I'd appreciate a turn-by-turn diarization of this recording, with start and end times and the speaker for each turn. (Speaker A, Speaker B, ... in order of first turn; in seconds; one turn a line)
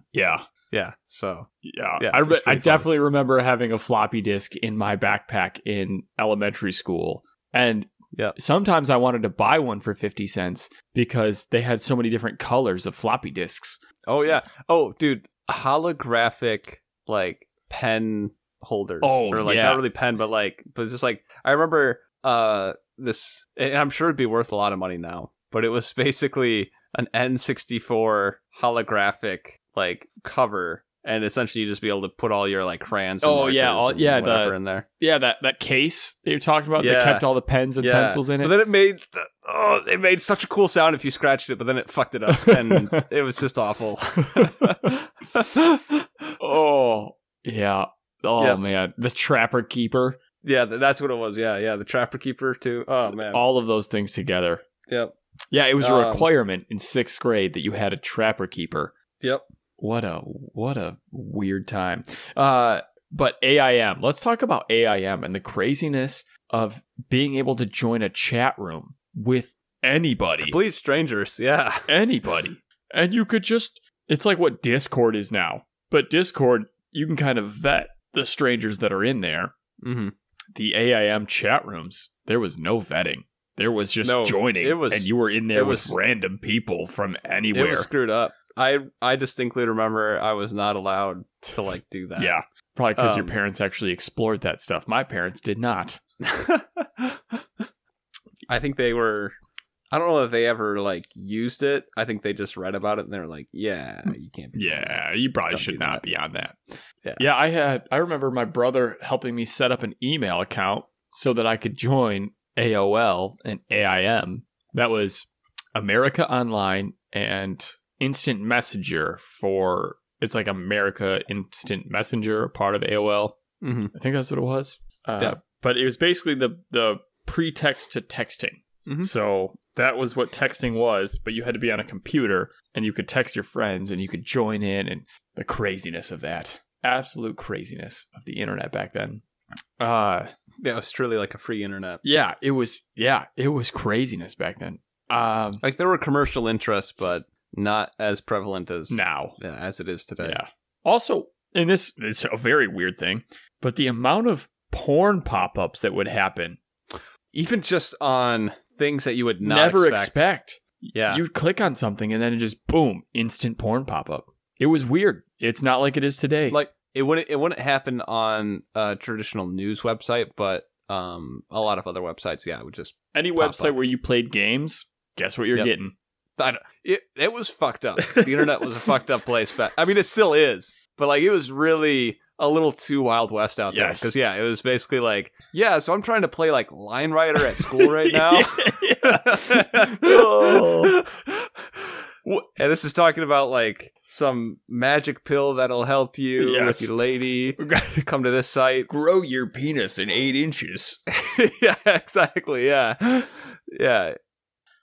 Speaker A: 0.1-0.4
Speaker B: 0.7-2.9
Speaker A: 1.6-13.8
Speaker B: 14.1-34.9
Speaker A: 19.0-19.8
Speaker A: 33.2-38.5
Speaker B: 36.8-37.2
Speaker B: 37.8-46.3
Speaker A: 42.5-43.0
Speaker A: 46.4-50.2
Speaker B: 50.4-53.4
Speaker A: 53.2-54.6
Speaker B: 54.9-55.1
Speaker A: 55.5-58.9
Speaker B: 55.8-56.3
Speaker A: 59.8-70.6
Speaker B: 70.4-71.9
Speaker A: 71.9-79.5
Speaker B: 79.8-80.1
Speaker A: 80.5-87.9
Speaker B: 84.0-86.0
Speaker B: 87.5-92.3
Speaker A: 92.2-96.0
Speaker B: 93.0-93.3
Speaker B: 96.2-97.7
Speaker B: 98.5-99.3
Speaker B: 99.9-105.0
Speaker A: 104.5-106.6
Speaker B: 105.5-106.0
Speaker A: 107.2-123.4
Speaker B: 123.6-123.9
Speaker A: 123.9-139.2
Speaker A: 139.8-140.3
Speaker B: 140.6-142.0
Speaker A: 142.0-145.6
Speaker B: 145.6-150.4
Speaker A: 148.9-149.4
Speaker A: 150.2-156.6
Speaker B: 157.3-160.3
Speaker A: 159.4-166.6
Speaker B: 160.9-161.2
Speaker B: 166.5-173.7
Speaker A: 173.1-175.9
Speaker B: 176.4-191.9
Speaker A: 178.0-178.7
Speaker A: 183.7-184.1
Speaker A: 187.4-191.0
Speaker B: 192.6-198.9
Speaker A: 196.4-196.9
Speaker A: 197.6-198.0
Speaker A: 198.9-201.0
Speaker B: 201.1-204.2